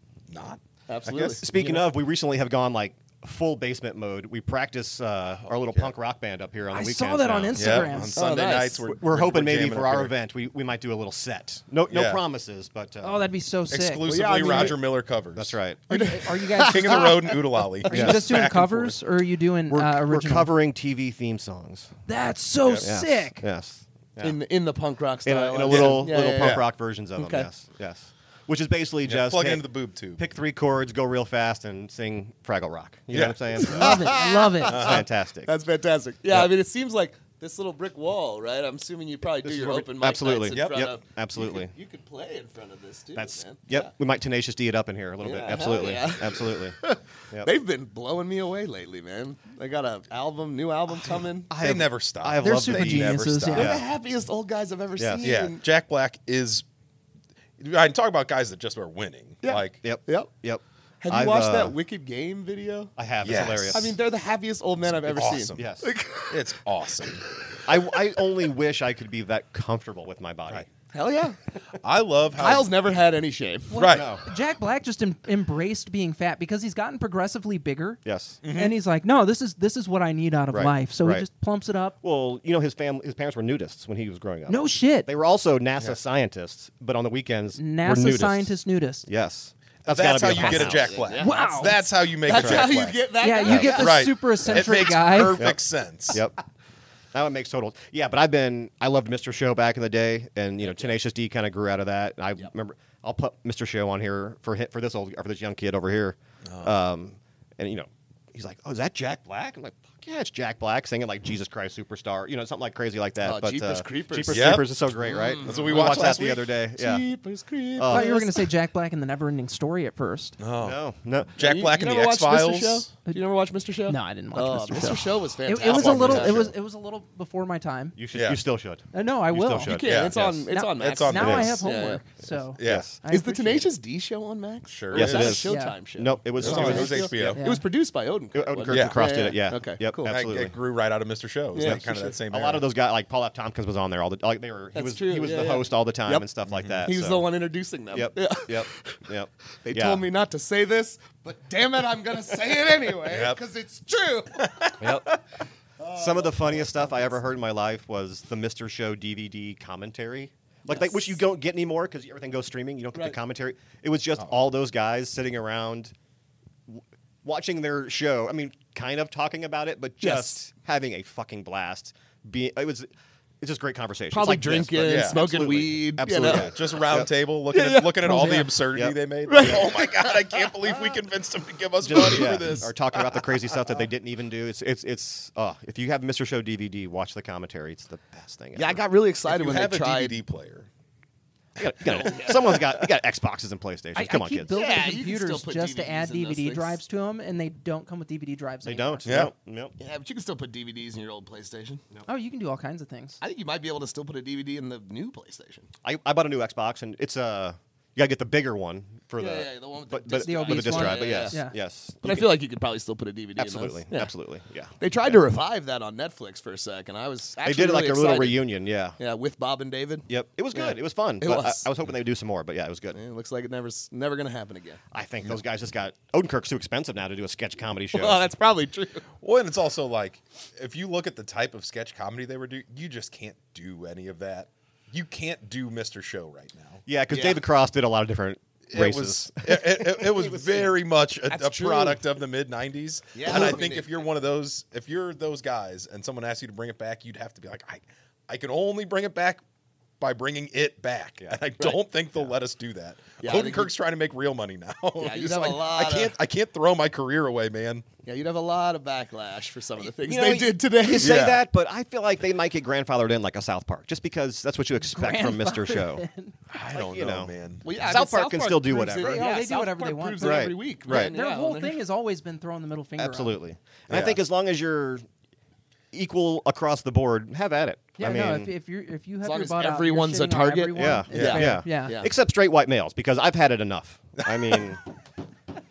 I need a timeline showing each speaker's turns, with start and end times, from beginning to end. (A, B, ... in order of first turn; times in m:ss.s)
0:00.3-0:01.8 A
0:00.9-0:01.8 B
0:01.4-0:07.9 C
0:05.4-0:05.9 A
0:06.7-0:08.2 D
0:07.5-0:10.1 A
0:08.2-0:08.8 B
0:08.8-0:13.3 C
0:11.9-0:12.2 A
0:13.0-0:14.6 D
0:13.7-0:15.6 A
0:14.0-0:14.8 B
0:15.3-0:15.8 C
0:15.9-0:17.3 D
0:15.9-0:17.6 B
0:16.6-0:19.0 A
0:17.8-0:20.5 D
0:17.9-0:18.4 C
0:19.7-0:22.0 C
0:22.1-0:23.4 D
0:22.8-0:24.4 C
0:24.2-0:27.5 B
0:25.2-0:29.6 C
0:25.6-0:26.6 A
0:29.0-0:30.2 A
0:30.2-0:35.5 C
0:33.1-0:33.9 A
0:33.6-0:43.9 B
0:33.6-0:34.8 D
0:34.6-0:35.0 A
0:39.4-0:41.7 C
0:40.5-0:40.9 A
0:43.1-0:46.8 C
0:45.2-0:51.5 B
0:51.1-0:53.8 C
0:51.5-0:53.7 A
0:52.4-0:53.7 D
0:53.5-0:55.6 B
0:55.0-0:55.3 C
0:55.2-0:56.6 A
0:57.6-0:59.8 A
0:59.4-1:00.3 B
0:59.8-1:01.8 C
1:01.0-1:02.9 B
1:03.0-1:04.0 C
1:03.2-1:03.9 A
1:03.7-1:07.2 B
1:04.9-1:05.7 A
1:05.3-1:05.9 C
1:06.3-1:07.2 A
1:07.6-1:10.7 C
1:10.9-1:11.4 B
1:11.8-1:12.9 A
1:12.3-1:13.9 B
1:13.7-1:21.9 D
1:13.7-1:14.2 A
1:13.9-1:14.2 C
1:18.0-1:18.4 C
1:18.4-1:18.8 A
1:20.5-1:21.3 C
1:22.0-1:31.0 C
1:24.5-1:25.1 D
1:27.5-1:29.1 D
1:29.8-1:36.2 A
1:30.4-1:31.4 B
1:31.2-1:31.9 D
1:32.2-1:34.1 B
1:32.3-1:32.7 C
1:33.2-1:35.4 D
1:33.5-1:33.8 C
1:36.1-1:36.4 C
1:37.1-1:57.0 C
1:46.4-1:46.7 A
1:53.2-1:56.2 B
1:54.3-1:54.7 A
1:55.4-1:56.5 A
1:56.8-1:58.3 B
1:57.8-1:58.3 C
1:57.8-2:00.4 D
2:00.4-2:00.8 A
2:00.6-2:01.3 C
2:01.4-2:02.9 A
2:01.4-2:06.5 B
2:03.9-2:08.0 D
2:05.6-2:06.5 A
2:07.9-2:10.4 C
2:08.1-2:08.4 A
2:08.9-2:09.8 D
2:09.6-2:12.0 B
2:09.7-2:10.2 A
2:10.5-2:13.7 D
2:10.8-2:11.6 A
2:11.2-2:11.6 C
2:12.6-2:12.9 A
2:12.6-2:12.9 C
2:13.1-2:20.1 B
2:14.7-2:15.5 A
2:14.9-2:17.4 C
2:15.4-2:15.8 D
2:16.4-2:17.4 A
2:16.5-2:17.7 D
2:18.3-2:20.5 C
2:18.7-2:19.0 A
2:20.1-2:22.7 A
2:21.5-2:22.2 B
2:21.6-2:27.3 C
2:24.7-2:26.3 B
2:26.4-2:26.9 A
2:26.8-2:29.1 B
2:27.9-2:30.0 C
2:29.6-2:35.1 B
2:33.1-2:33.4 A
2:34.4-2:34.9 A
2:34.8-2:35.2 C
2:35.8-2:37.2 B
2:35.9-2:45.9 C
2:40.7-2:41.1 B
2:46.7-2:52.9 C
2:50.0-2:50.4 B
2:53.4-2:57.1 C
2:54.1-2:56.8 B
2:54.8-2:55.2 A
2:56.2-3:03.3 A
2:57.5-2:58.4 B
2:58.0-2:59.0 C
2:58.1-2:58.4 D
2:59.3-3:00.9 B
3:01.8-3:08.8 C
3:08.6-3:10.2 B
3:09.3-3:10.7 A
3:11.6-3:14.6 C
3:11.8-3:12.9 B
3:13.9-3:19.1 D
3:14.5-3:16.8 B
3:18.6-3:19.7 C
3:19.0-3:19.3 A
3:19.8-3:21.8 B
3:22.1-3:23.2 D
3:23.2-3:25.7 B
3:25.8-3:32.3 C
3:29.2-3:31.4 B
3:30.2-3:31.6 D
3:32.0-3:34.1 B
3:33.4-3:35.2 C
3:34.8-3:41.7 B
3:37.4-3:39.0 C
3:40.1-3:43.0 C
3:42.9-3:44.8 B
3:44.9-3:48.3 C
3:47.9-3:49.0 B
3:49.2-3:56.8 A
3:56.8-4:00.8 C
3:57.1-3:57.4 B
3:58.7-4:09.4 A
4:01.3-4:02.0 B
4:03.1-4:04.0 B
4:10.0-4:17.8 A
4:13.2-4:13.7 B
4:15.0-4:16.2 B
4:18.0-4:21.3 B
4:19.8-4:26.0 C
4:20.9-4:21.4 A
4:24.8-4:26.3 D
4:26.5-4:27.6 A
4:26.7-4:29.3 C
4:27.6-4:31.8 B
4:28.7-4:33.4 D
4:30.2-4:31.1 C
4:33.0-4:35.0 C
4:33.9-4:34.2 A
4:35.9-4:38.5 C
4:38.0-4:42.0 D
4:39.2-4:42.1 B
4:40.7-4:44.8 C
4:41.1-4:41.5 A
4:44.2-4:44.7 A